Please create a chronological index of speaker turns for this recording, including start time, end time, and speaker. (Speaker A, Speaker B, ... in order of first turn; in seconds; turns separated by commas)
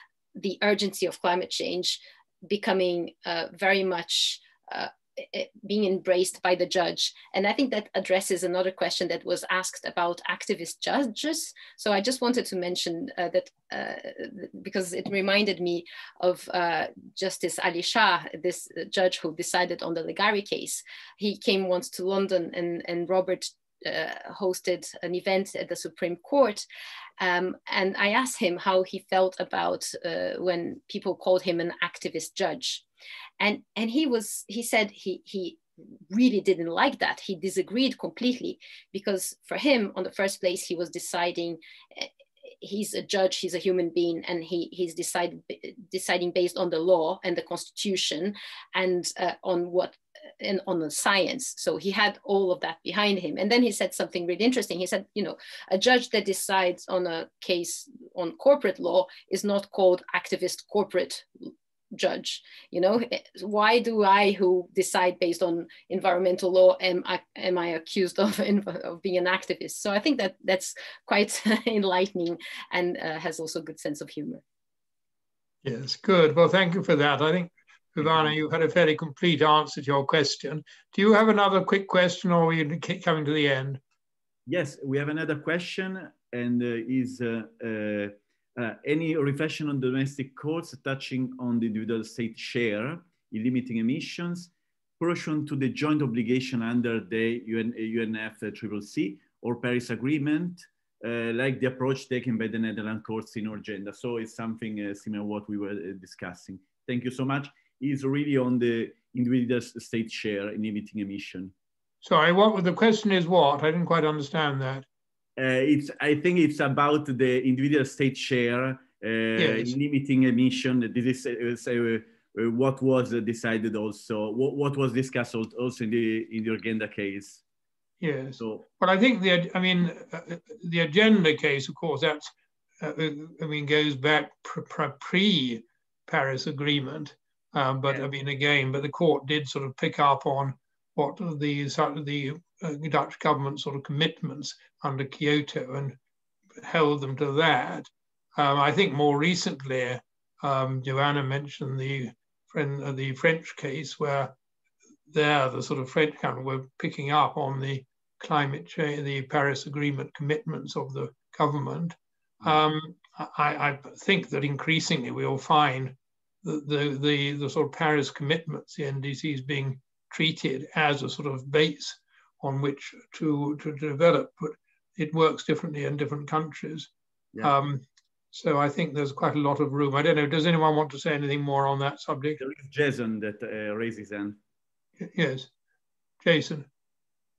Speaker A: 0.3-26.6, Speaker A: 27.2-32.8, Speaker A: 33.4-42.1, Speaker A: 42.6-74.4, Speaker B: 75.6-83.8, Speaker C: 84.5-111.5, Speaker B: 112.0-114.8, Speaker C: 115.4-127.4, Speaker B: 119.4-119.8, Speaker B: 128.0-146.0, Speaker C: 128.4-128.7, Speaker B: 146.6-154.3, Speaker B: 155.1-176.9, Speaker B: 177.4-177.8, Speaker B: 178.3-182.4, Speaker C: 182.4-184.4, Speaker B: 185.0-185.5, Speaker B: 186.2-186.7